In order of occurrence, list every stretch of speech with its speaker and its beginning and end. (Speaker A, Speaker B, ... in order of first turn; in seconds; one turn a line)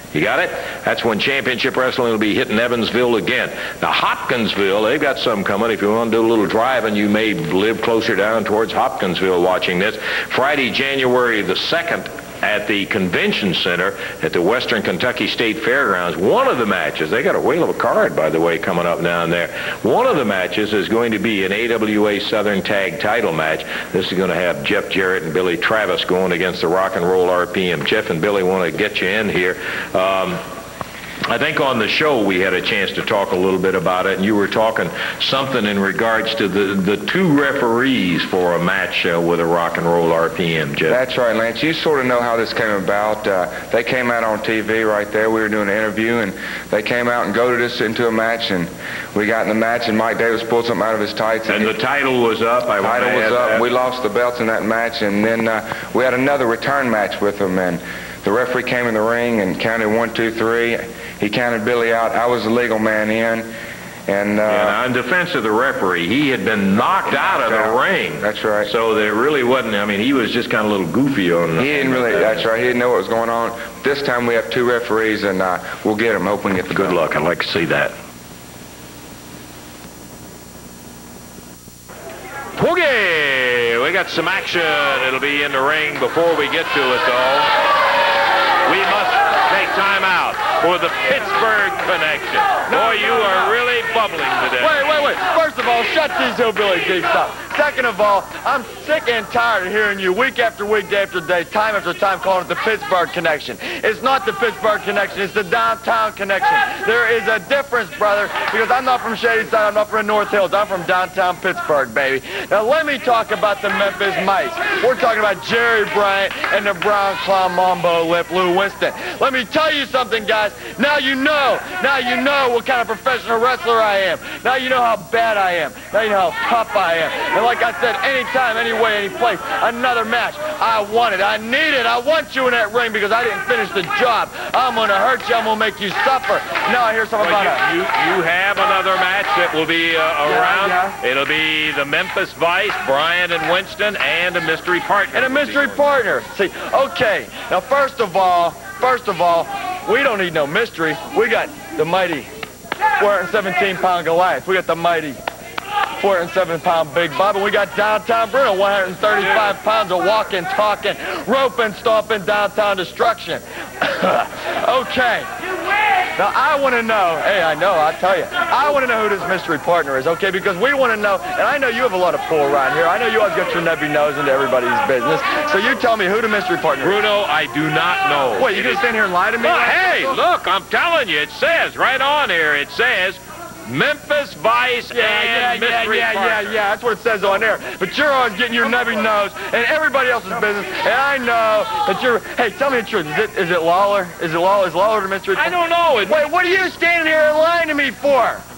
Speaker A: 0.1-30.4
Speaker A: 31.3-41.0
Speaker B: 40.9-51.8
Speaker A: 51.5-53.7
Speaker B: 52.8-63.5
Speaker B: 64.1-64.8
Speaker A: 64.5-72.5
Speaker B: 67.1-68.7
Speaker B: 71.6-77.0
Speaker A: 76.7-77.9
Speaker A: 82.5-87.5
Speaker A: 88.6-94.8
Speaker C: 92.7-93.5
Speaker C: 94.6-137.6
Speaker A: 137.2-145.9
Speaker C: 140.2-140.9
Speaker C: 145.1-152.3
Speaker C: 153.0-155.2
Speaker C: 156.0-165.3
Speaker C: 166.2-176.9
Speaker A: 176.8-178.8
Speaker C: 178.3-180.2
Speaker A: 179.4-186.6
Speaker C: 184.9-195.5
Speaker A: 195.3-196.3
Speaker C: 196.1-198.4